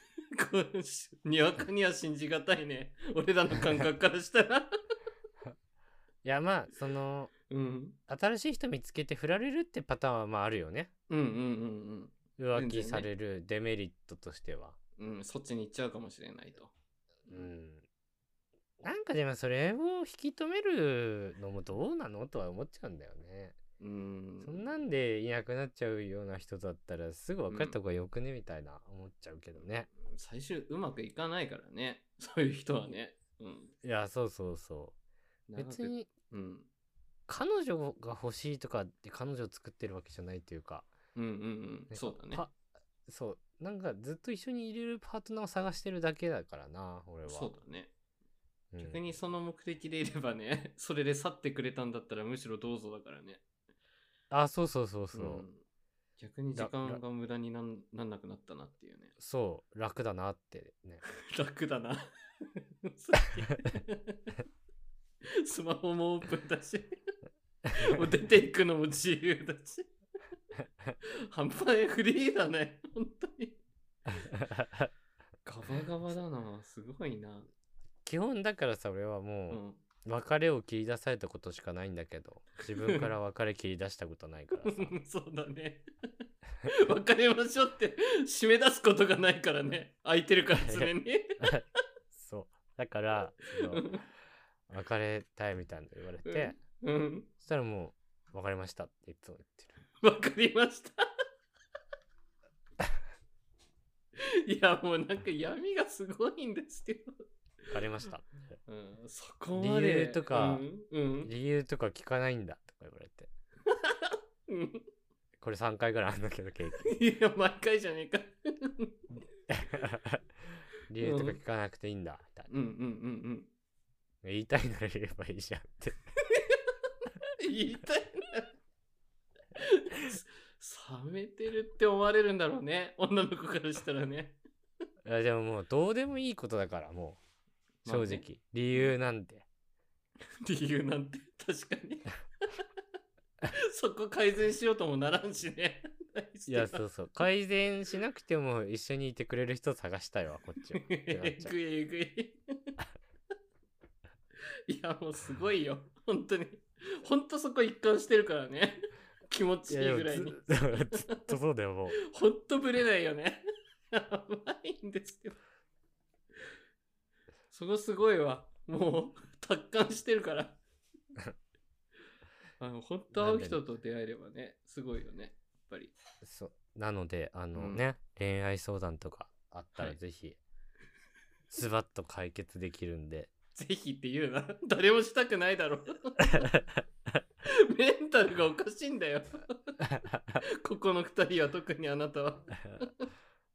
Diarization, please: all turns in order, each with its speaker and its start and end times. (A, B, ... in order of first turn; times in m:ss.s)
0:00.3-0:04.8 A
0:06.2-0:07.3 B
0:07.5-0:08.0 A
0:08.1-0:10.9 B
0:11.1-0:13.1 A
0:12.4-0:14.8 B
0:15.0-0:16.7 A
0:17.3-0:17.8 B
0:18.8-0:23.6 B
0:23.8-0:24.8 A
0:24.4-0:29.9 B
0:27.5-0:27.8 A
0:30.0-0:33.7 A
0:33.8-0:34.9 B
0:35.5-0:36.7 A
0:35.6-0:36.1 B
0:37.3-0:40.9 B
0:41.1-0:42.4 A
0:41.9-0:47.5 B
0:47.3-0:47.9 A
0:48.7-0:49.0 B
0:48.8-0:53.4 A
0:54.3-0:55.4 B
0:55.1-0:55.6 A
0:56.2-0:59.1 A
0:56.6-0:57.0 B
0:59.2-1:01.0 B
1:01.1-1:04.4 A
1:05.3-1:07.0 A
1:07.7-1:09.9 A
1:11.0-1:13.6 A
1:14.1-1:14.9 B
1:15.4-1:17.5 A
1:18.0-1:24.9 B
1:19.5-1:19.8 A
1:22.8-1:23.1 A
1:24.6-1:25.9 A
1:26.6-1:31.5 A
1:30.6-1:33.9 B
1:33.6-1:34.0 A
1:34.7-1:36.6 B
1:36.3-1:37.3 A
1:37.4-1:39.8 B
1:40.0-1:41.1 A
1:44.2-1:47.2 A
1:47.7-1:48.5 B
1:48.7-1:51.3 A
1:49.6-1:50.7 B
1:51.2-1:53.3 B
1:53.7-1:54.8 A
1:55.4-1:56.9 B
1:56.8-1:58.9 A
1:59.5-2:00.3 B
2:00.9-2:02.5 B
2:01.0-2:01.4 A
2:02.5-2:03.5 A
2:04.2-2:06.0 B
2:06.3-2:06.6 A
2:07.4-2:08.5 A
2:09.6-2:14.4 A
2:15.0-2:17.2 B
2:17.8-2:18.9 A
2:17.8-2:19.4 B
2:20.4-2:22.6 A
2:23.5-2:26.8 A
2:26.5-2:31.5 B
2:30.8-2:32.7 A
2:34.7-2:41.3 A
2:39.7-2:42.0 B
2:42.0-2:45.4 A
2:47.5-2:50.6 A
2:52.6-2:55.9 A
2:53.1-2:53.6 B
2:56.2-3:00.4 B
2:57.6-2:57.8 A
3:01.5-3:03.3 B
3:03.6-3:06.6 A
3:07.4-3:09.8 A
3:10.4-3:13.1 A